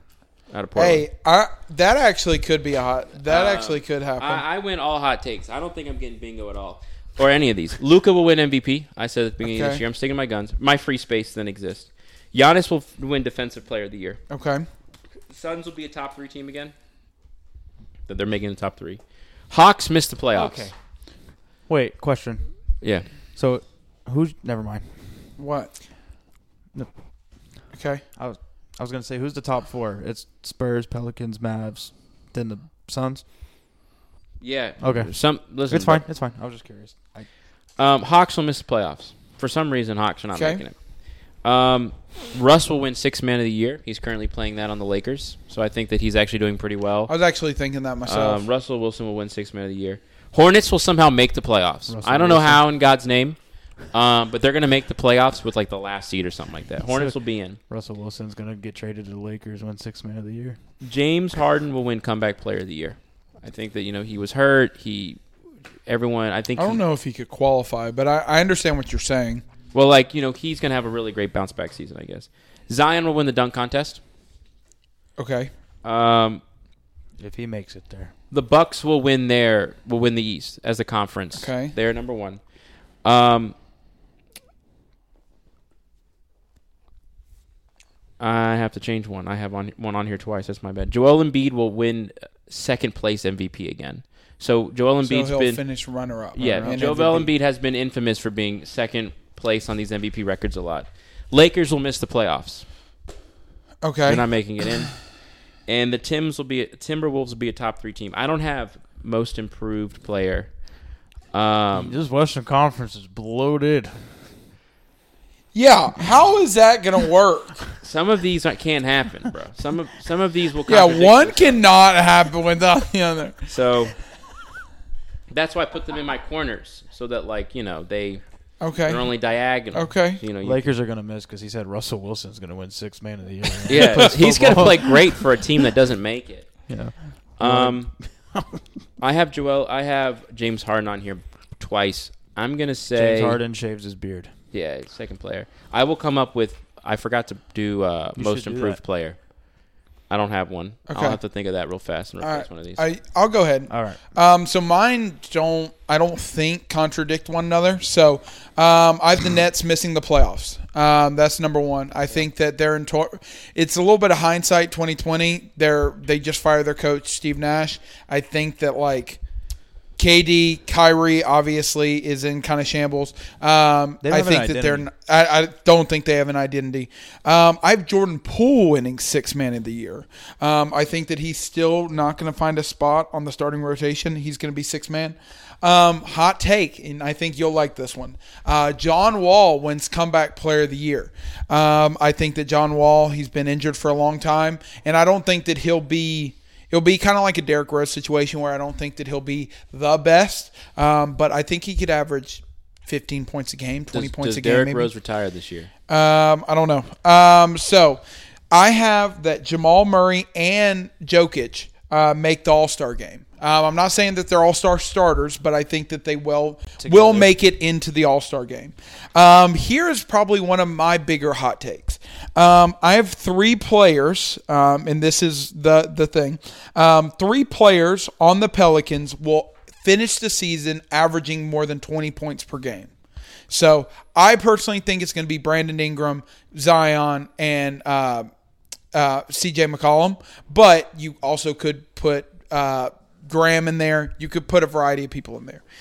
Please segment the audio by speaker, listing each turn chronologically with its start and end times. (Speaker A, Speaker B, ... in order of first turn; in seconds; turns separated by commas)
Speaker A: 0.5-1.0, Speaker B: 0.8-4.4, Speaker A: 3.2-14.2, Speaker B: 9.4-9.8, Speaker B: 14.3-14.7, Speaker A: 15.3-16.7, Speaker A: 18.1-20.7, Speaker C: 20.3-20.7, Speaker C: 21.7-22.4, Speaker A: 22.8-23.1, Speaker C: 23.4-24.9, Speaker B: 25.4-25.7, Speaker B: 27.7-28.0, Speaker C: 28.2-33.2, Speaker A: 34.4-36.0, Speaker C: 34.8-35.1, Speaker C: 35.7-37.3, Speaker A: 37.8-40.8, Speaker B: 40.3-40.6, Speaker A: 41.4-47.1, Speaker B: 47.1-48.4, Speaker A: 48.0-53.4, Speaker C: 51.9-52.6, Speaker A: 53.9-57.6, Speaker C: 56.8-57.1, Speaker C: 57.7-60.6, Speaker A: 60.8-65.2, Speaker A: 65.8-66.8, Speaker B: 66.6-69.4, Speaker A: 69.7-74.0, Speaker B: 75.2-75.5, Speaker A: 75.8-76.4, Speaker C: 77.2-78.1, Speaker A: 78.3-82.4, Speaker B: 81.3-81.7, Speaker A: 83.0-83.5, Speaker A: 88.2-95.6, Speaker B: 95.0-97.3, Speaker A: 96.3-102.6, Speaker C: 96.4-96.7, Speaker B: 103.8-104.2, Speaker A: 104.0-104.9, Speaker A: 105.7-110.5, Speaker A: 111.3-112.0, Speaker C: 111.7-114.1, Speaker B: 115.5-117.6, Speaker A: 117.8-121.6, Speaker B: 120.7-123.5, Speaker A: 123.5-123.9, Speaker A: 125.3-128.2, Speaker B: 128.6-129.1, Speaker A: 128.8-130.6, Speaker B: 129.7-130.2, Speaker C: 130.4-135.2, Speaker A: 133.7-136.5, Speaker C: 136.7-138.6, Speaker A: 137.4-137.9, Speaker A: 139.0-143.4, Speaker C: 142.9-144.3, Speaker A: 144.5-149.2, Speaker C: 148.2-148.8, Speaker A: 150.1-152.8, Speaker B: 150.9-151.2, Speaker B: 152.2-169.2, Speaker C: 153.7-154.0, Speaker B: 170.0-204.9, Speaker C: 174.0-174.9, Speaker A: 203.9-205.7, Speaker B: 205.9-232.9, Speaker C: 216.8-217.3, Speaker B: 233.5-238.3, Speaker B: 238.9-245.6